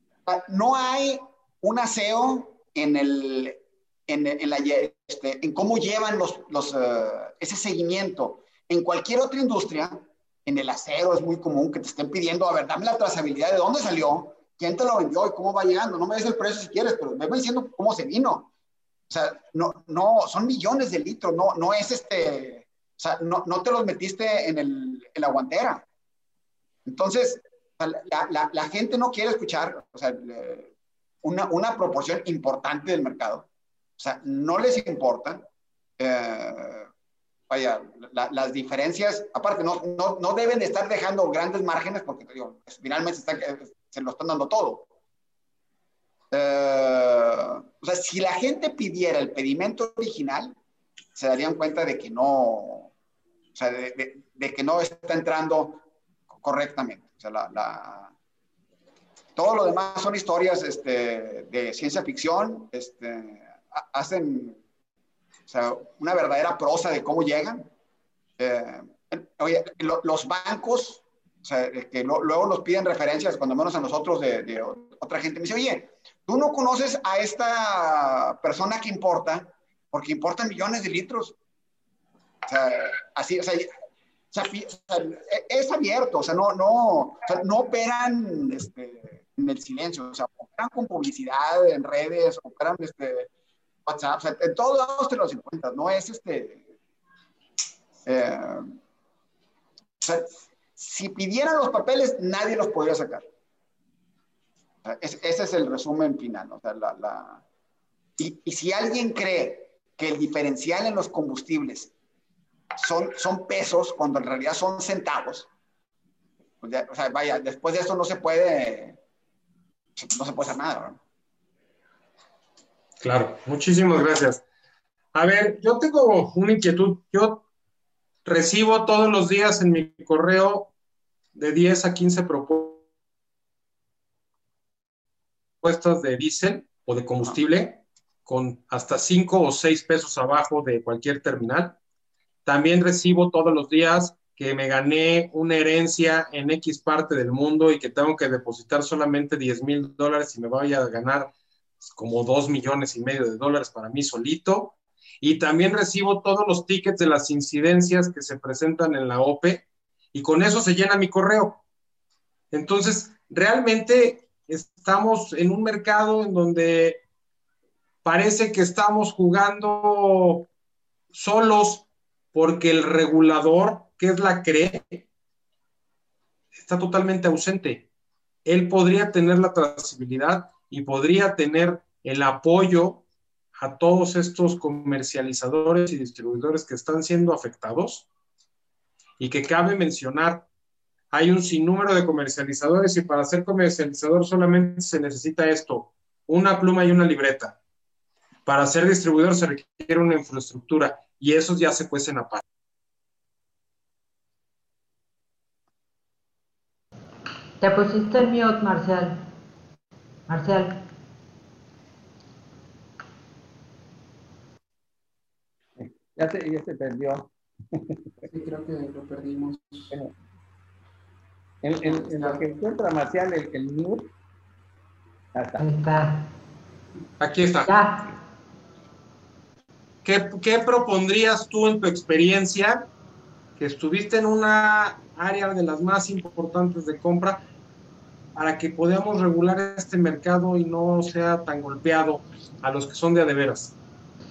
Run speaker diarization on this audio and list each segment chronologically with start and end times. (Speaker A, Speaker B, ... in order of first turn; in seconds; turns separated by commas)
Speaker A: 0.3-18.5, Speaker A: 19.1-25.8, Speaker A: 26.9-30.7, Speaker A: 31.2-33.5, Speaker A: 34.0-35.5, Speaker A: 36.0-36.9, Speaker A: 37.5-44.9, Speaker A: 46.3-50.5, Speaker A: 51.1-52.9, Speaker A: 53.5-55.8, Speaker A: 56.4-58.1, Speaker A: 59.4-64.6, Speaker A: 65.5-67.7, Speaker A: 68.4-81.3, Speaker A: 82.5-83.7, Speaker A: 84.3-93.3, Speaker A: 93.8-96.6, Speaker A: 98.0-98.7, Speaker A: 100.0-103.2, Speaker A: 104.8-107.4, Speaker A: 108.2-111.9, Speaker A: 112.8-115.5, Speaker A: 116.6-119.0, Speaker A: 120.0-121.0, Speaker B: 123.0-124.4, Speaker B: 125.1-127.4, Speaker B: 128.2-130.7, Speaker B: 131.3-132.8, Speaker B: 135.6-141.8, Speaker B: 142.4-151.3, Speaker B: 151.8-161.6, Speaker B: 162.5-167.0, Speaker B: 168.0-170.5, Speaker B: 171.1-175.0, Speaker B: 176.6-177.9, Speaker B: 178.4-183.0, Speaker B: 183.6-188.1, Speaker B: 189.2-190.4, Speaker B: 191.1-197.6, Speaker B: 198.4-202.4, Speaker C: 207.6-209.2, Speaker C: 210.3-210.8, Speaker D: 215.8-217.9, Speaker E: 218.3-219.9, Speaker D: 221.6-224.1, Speaker E: 221.8-222.4, Speaker D: 225.3-225.6, Speaker C: 225.6-226.3, Speaker B: 227.2-227.7, Speaker C: 227.7-228.1, Speaker B: 230.0-232.9, Speaker B: 233.6-237.4, Speaker B: 238.3-243.7